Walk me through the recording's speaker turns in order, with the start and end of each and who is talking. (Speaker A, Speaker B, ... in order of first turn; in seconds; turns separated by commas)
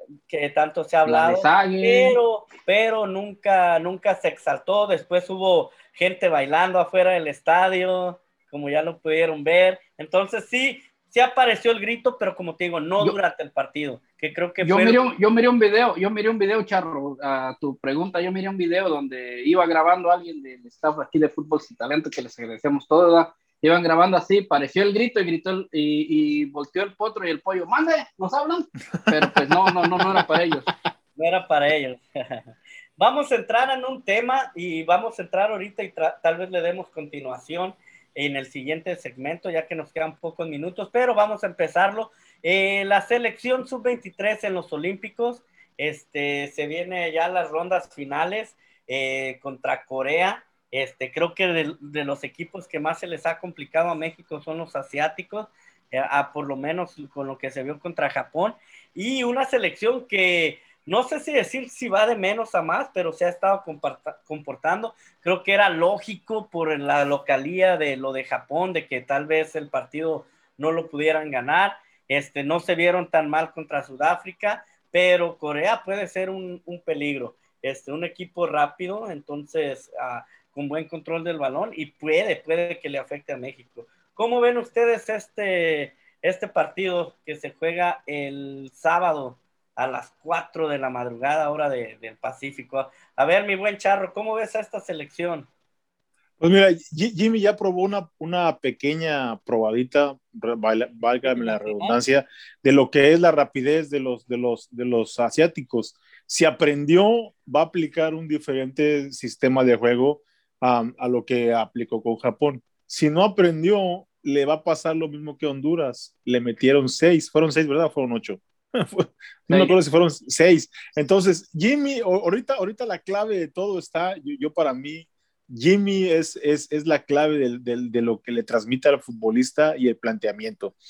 Speaker A: 0.3-15.1, Speaker B: 1.1-2.2, Speaker B: 14.6-30.7, Speaker C: 29.2-30.3, Speaker A: 31.2-95.5, Speaker C: 96.4-130.8, Speaker A: 101.3-102.0, Speaker B: 119.5-119.8